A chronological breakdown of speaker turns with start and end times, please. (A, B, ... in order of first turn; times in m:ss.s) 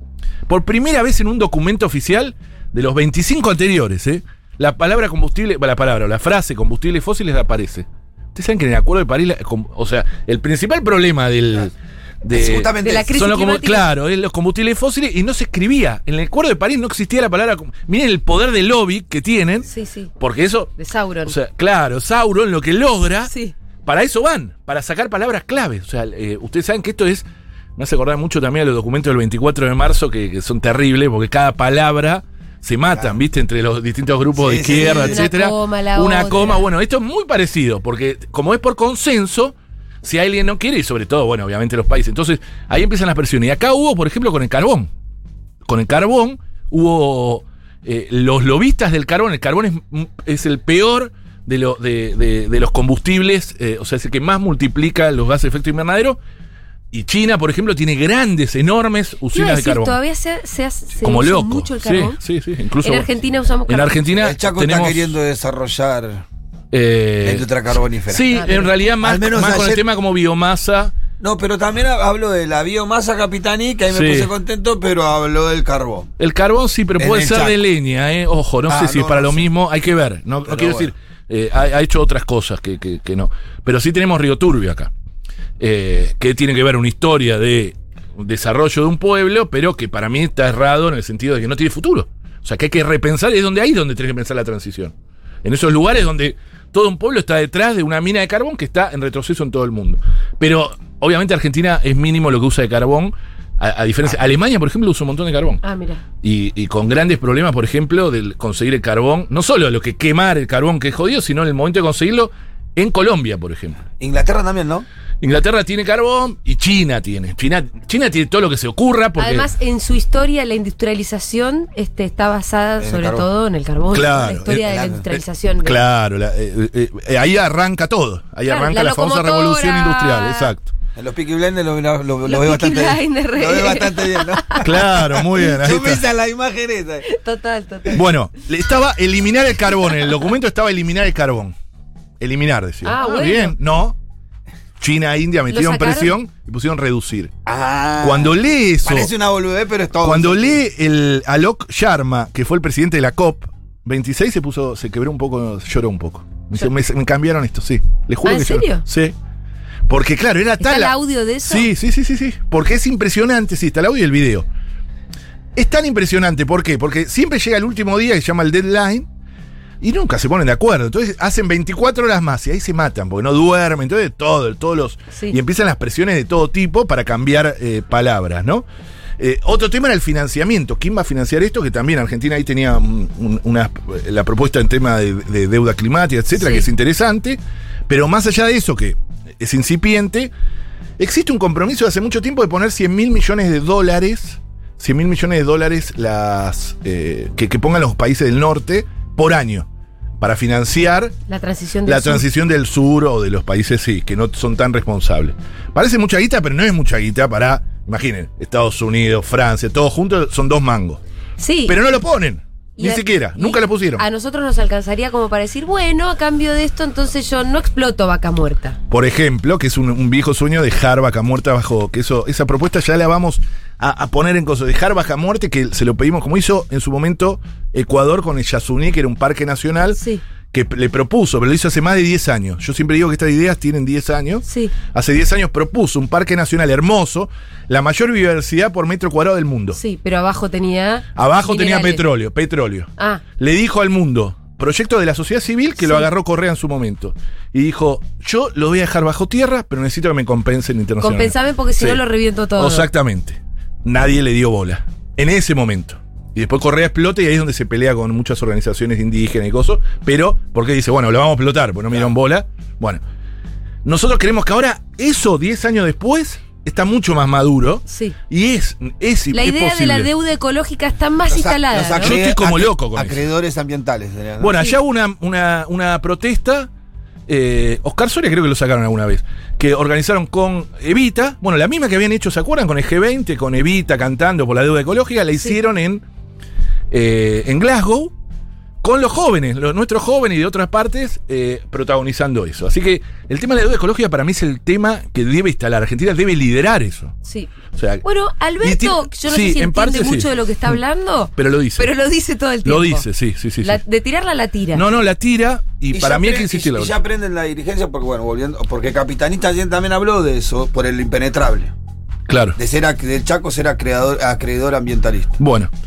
0:00.5-0:19.7 A
0:12.3-0:13.1 B
0:12.8-0:13.9 C
0:19.7-0:20.1 C
0:20.2-0:20.7 A
0:20.8-0:21.4 C
0:21.2-0:23.3 A
0:23.3-0:23.5 C
0:23.8-0:27.2 A
0:27.8-0:44.9 A
0:34.4-0:35.2 B
0:34.7-0:36.6 C
0:45.6-0:56.2 A
0:56.9-1:00.0 A
0:59.3-1:02.2 C
1:01.0-1:03.1 A
1:02.8-1:04.0 C
1:03.7-1:05.1 A
1:04.2-1:06.2 B
1:06.7-1:07.5 A
1:07.2-1:08.3 B
1:08.1-1:11.0 A
1:08.3-1:08.7 C
1:09.0-1:09.8 B
1:11.2-1:16.1 B
1:13.9-1:14.3 A
1:16.2-1:24.9 A
1:17.0-1:17.6 B
1:18.7-1:19.5 B
1:20.5-1:20.9 B
1:25.6-1:45.6 A
1:45.6-1:46.0 C
1:46.2-1:53.8 A
1:54.0-1:54.8 B
1:55.2-1:59.5 A
1:59.2-2:05.8 C
2:02.8-2:03.2 B
2:03.9-2:04.7 A
2:04.6-2:05.1 B
2:05.6-2:10.7 A
2:08.4-2:10.5 C
2:11.0-2:17.0 B
2:12.3-2:14.6 C
2:14.6-2:16.0 A
2:17.1-2:18.0 C
2:17.9-2:21.5 A
2:22.2-2:24.0 A
2:22.8-2:23.5 C
2:24.8-2:27.3 A
2:25.5-2:26.1 C
2:27.4-2:30.6 B
2:28.0-2:29.1 A
2:30.0-2:39.1 A
2:38.2-2:38.8 C
2:39.9-2:44.4 A
2:40.6-2:41.7 C
2:45.5-2:49.1 A
2:49.8-2:58.6 A
2:59.2-3:10.3 A
3:06.4-3:06.6 C
3:11.0-3:19.7 A
3:20.2-3:21.2 A
3:21.3-3:22.2 C
3:21.8-3:31.0 A
3:31.4-3:31.8 C
3:31.6-3:34.0 A
3:32.8-3:38.8 C
3:38.9-3:50.0 A
3:49.9-3:50.2 C
3:50.5-3:59.8 A
3:54.5-3:54.7 C
3:59.7-4:02.0 C
4:01.2-4:12.0 A
4:05.8-4:06.1 C
4:11.0-4:12.9 C
4:12.6-4:23.0 A
4:23.8-4:30.1 A
4:27.9-4:28.1 C
4:29.3-4:32.1 C
4:31.3-4:34.7 B
4:32.0-4:33.2 A
4:34.4-4:36.7 A
4:37.3-4:46.0 A
4:46.9-4:48.1 A
4:48.8-4:57.2 A
4:57.2-4:57.5 C
4:57.7-4:58.0 A
4:58.0-5:03.0 C
4:58.6-5:00.8 A
5:01.4-5:01.9 A
5:02.6-5:03.8 A
5:03.6-5:04.8 C
5:04.7-5:06.9 A
5:05.9-5:11.7 B
5:12.3-5:12.6 A
5:12.6-5:15.4 B
5:15.4-5:15.7 A